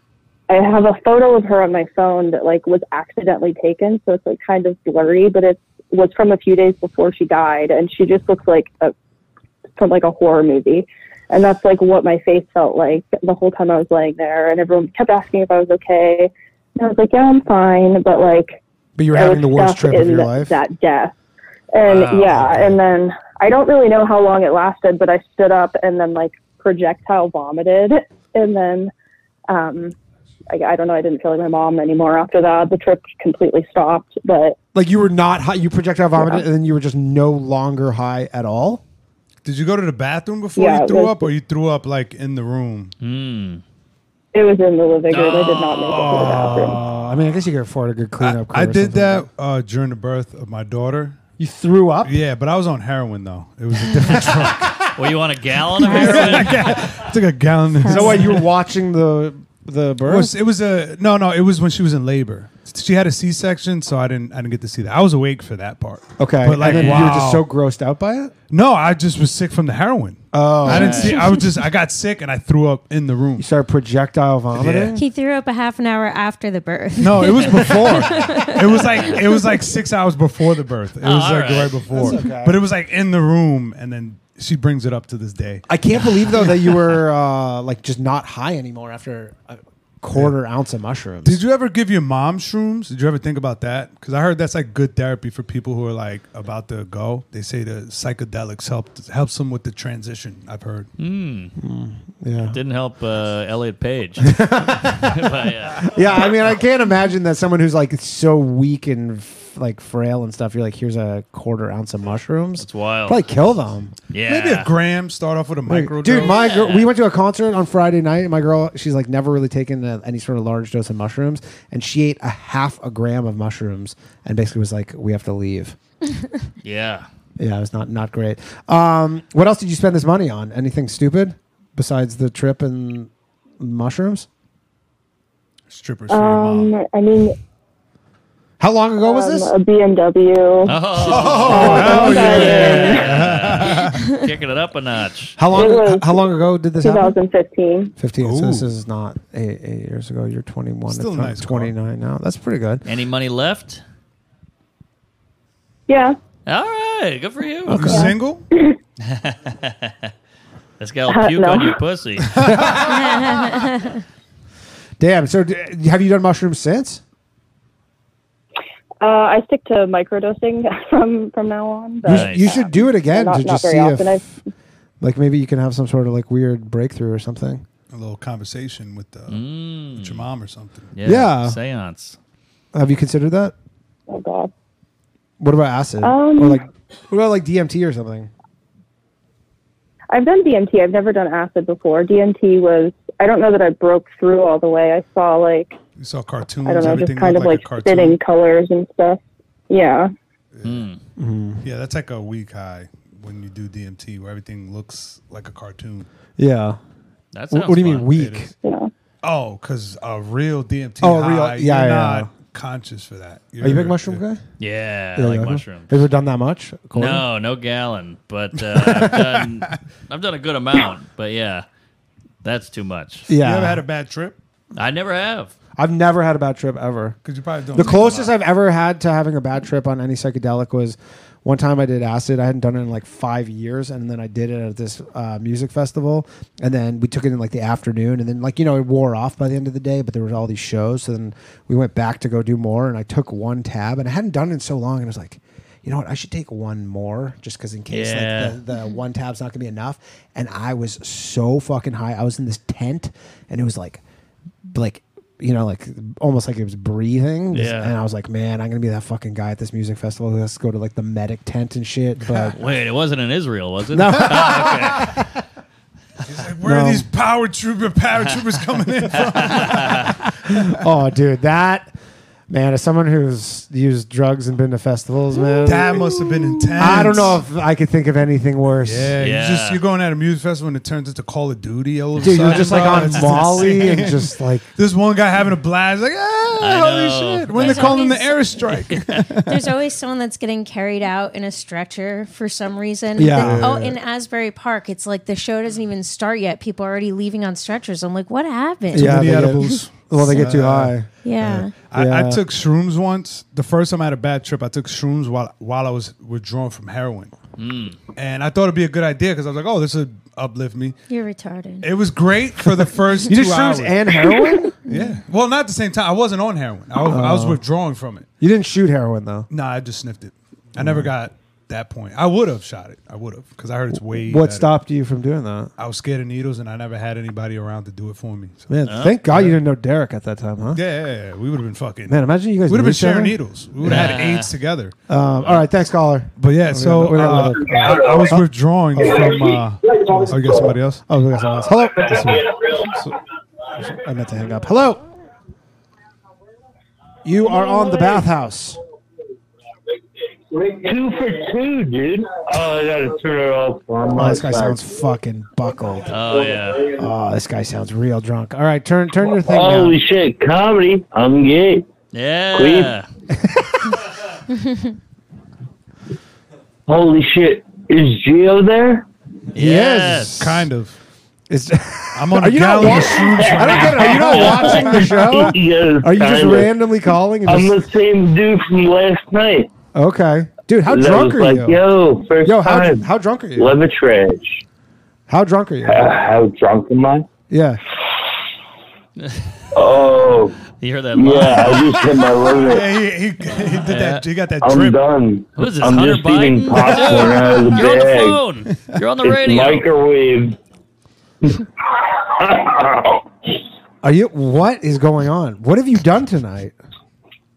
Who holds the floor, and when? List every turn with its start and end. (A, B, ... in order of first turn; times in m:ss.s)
0:00.5-0:08.9 A
0:09.8-0:18.6 A
0:19.0-0:20.5 B
0:19.1-0:21.1 A
0:21.7-0:28.9 A
0:21.8-0:22.6 C
0:29.5-0:29.9 A
0:30.5-0:34.6 A
0:34.7-0:38.8 B
0:36.2-0:36.4 A
0:39.4-0:42.9 D
0:40.6-0:41.3 A
0:43.0-0:43.6 C
0:44.3-0:46.8 A
0:45.1-0:46.7 C
0:46.0-0:46.8 D
0:46.3-0:49.3 B
0:48.2-0:51.2 D
0:51.4-0:52.2 B
0:52.0-0:54.9 D
0:55.0-0:56.7 C
0:55.8-0:58.4 D
0:55.9-0:56.7 B
0:57.8-0:58.3 E
0:57.8-1:00.3 B
1:00.0-1:07.5 D
1:06.2-1:08.3 B
1:06.6-1:07.2 C
1:08.5-1:13.5 D
1:10.3-1:11.2 B
1:10.7-1:11.1 C
1:13.4-1:15.0 B
1:14.5-1:14.9 D
1:14.9-1:19.3 E
1:17.0-1:25.6 D
1:21.0-1:21.9 C
1:21.9-1:22.6 B
1:25.7-1:31.4 B
1:31.2-1:40.9 D
1:41.0-1:41.5 C
1:41.6-1:42.6 B
1:42.5-1:45.9 C
1:44.2-1:53.9 B
1:52.6-1:53.2 C
1:54.1-1:54.7 C
1:54.3-1:56.5 D
1:55.7-2:05.8 B
1:56.2-1:56.9 C
2:06.6-2:07.1 C
2:07.4-2:14.3 B
2:15.7-2:16.7 D
2:16.1-2:17.4 A
2:18.6-2:19.5 B
2:19.0-2:23.3 A
2:20.7-2:25.4 C
2:21.0-2:24.2 D
2:21.2-2:22.5 B
2:25.4-2:27.2 B
2:25.5-2:26.3 A
2:26.8-2:27.9 A
2:28.0-2:32.8 B
2:28.2-2:28.7 D
2:30.9-2:31.7 D
2:32.9-2:33.8 C
2:35.9-2:36.2 A
2:36.5-2:38.0 C
2:37.7-2:38.1 B
2:37.7-2:38.4 D
2:37.9-2:38.8 A
2:39.0-2:40.1 C
2:40.8-2:42.4 C
2:41.1-2:41.8 A
2:42.3-2:42.7 D
2:42.4-2:42.9 B
2:42.8-2:44.0 E
2:45.0-2:47.0 B
2:49.0-2:54.3 A
2:52.0-2:54.4 B
2:52.1-2:52.5 C
2:55.0-2:57.6 B
2:57.9-3:00.9 D
2:59.3-3:00.3 C
3:01.0-3:02.2 C
3:01.0-3:01.6 B
3:02.7-3:03.5 B
3:04.1-3:04.5 A
3:05.4-3:08.3 B
3:06.0-3:06.6 A
3:10.1-3:15.8 A
3:16.0-3:18.2 D
3:16.6-3:20.1 A
3:20.6-3:20.9 D
3:20.6-3:21.0 C
3:21.2-3:21.6 B
3:21.6-3:26.1 D
3:26.4-3:26.8 B
3:27.3-3:28.1 C
3:27.5-3:28.5 B
3:28.0-3:28.5 D
3:28.6-3:28.9 A
3:29.2-3:34.2 D
3:31.0-3:32.3 B
3:33.6-3:34.4 B
3:34.6-3:35.9 C
3:35.2-3:37.2 B
3:36.9-3:41.6 C
3:39.0-3:39.8 D
3:42.4-3:43.3 C
3:43.3-3:43.8 B
3:43.4-3:44.4 D
3:44.8-3:45.5 C
3:45.8-3:47.2 B
3:47.2-3:48.4 D
3:47.7-4:14.0 B
4:07.9-4:08.6 C
4:14.7-4:22.6 B
4:17.5-4:17.9 C
4:22.6-4:25.1 C
4:23.9-4:25.1 B
4:26.3-4:30.2 D
4:26.6-4:27.1 B
4:29.4-4:30.2 C
4:30.8-4:31.9 B
4:32.5-4:36.1 B
4:35.6-4:37.4 D
4:36.8-4:39.1 B
4:38.8-4:49.7 D
4:39.2-4:39.8 C
4:42.2-4:44.7 B
4:42.4-4:43.1 C
4:46.6-4:48.0 C
4:47.6-4:48.7 E
4:49.5-4:59.8 E
4:53.2-4:53.9 B
4:53.3-4:53.9 D
4:58.9-5:01.0 D
4:58.9-5:01.1 B
5:01.2-5:01.7 E
5:01.5-5:07.3 D
5:01.8-5:02.4 B
5:07.6-5:08.0 C
5:08.2-5:11.0 D
5:11.1-5:11.9 E
5:11.8-5:14.1 D
5:13.3-5:14.8 B
5:14.9-5:15.2 E
5:14.9-5:18.3 D
5:17.0-5:17.6 B
5:18.4-5:19.5 B
5:19.5-5:24.7 D
5:20.8-5:21.1 B
5:24.1-5:25.7 B
5:25.8-5:28.7 D
5:28.7-5:30.8 B
5:28.9-5:29.2 C
5:29.3-5:29.6 D
5:30.8-5:34.9 D
5:32.1-5:34.2 B
5:33.8-5:34.5 C
5:35.1-5:39.4 B
5:36.4-5:41.0 D
5:40.2-5:42.5 B
5:42.1-5:42.5 D
5:43.8-5:45.0 B
5:47.2-5:48.8 B
5:50.6-5:54.8 F
5:54.2-5:56.2 B
5:56.1-5:57.0 C
5:57.0-6:00.0 B
5:59.3-6:01.9 F
6:02.1-6:03.1 C
6:02.5-6:03.0 F
6:06.9-6:09.1 F
6:09.6-6:10.4 C
6:09.6-6:10.7 B
6:10.3-6:11.0 D
6:11.5-6:17.8 B
6:12.2-6:15.6 D
6:14.0-6:16.8 F
6:17.5-6:19.7 F
6:19.9-6:21.8 B
6:20.9-6:24.6 F
6:22.4-6:23.8 B
6:25.3-6:26.1 B
6:25.8-6:27.3 F
6:27.5-6:27.8 B
6:29.2-6:29.4 C
6:29.7-6:30.6 F
6:30.8-6:32.1 C
6:31.2-6:32.9 F
6:32.5-6:35.0 D
6:33.9-6:34.2 C
6:34.6-6:38.4 F
6:35.6-6:39.9 C
6:36.7-6:37.5 D
6:39.2-6:40.6 F
6:41.4-6:43.2 F
6:44.0-6:46.8 B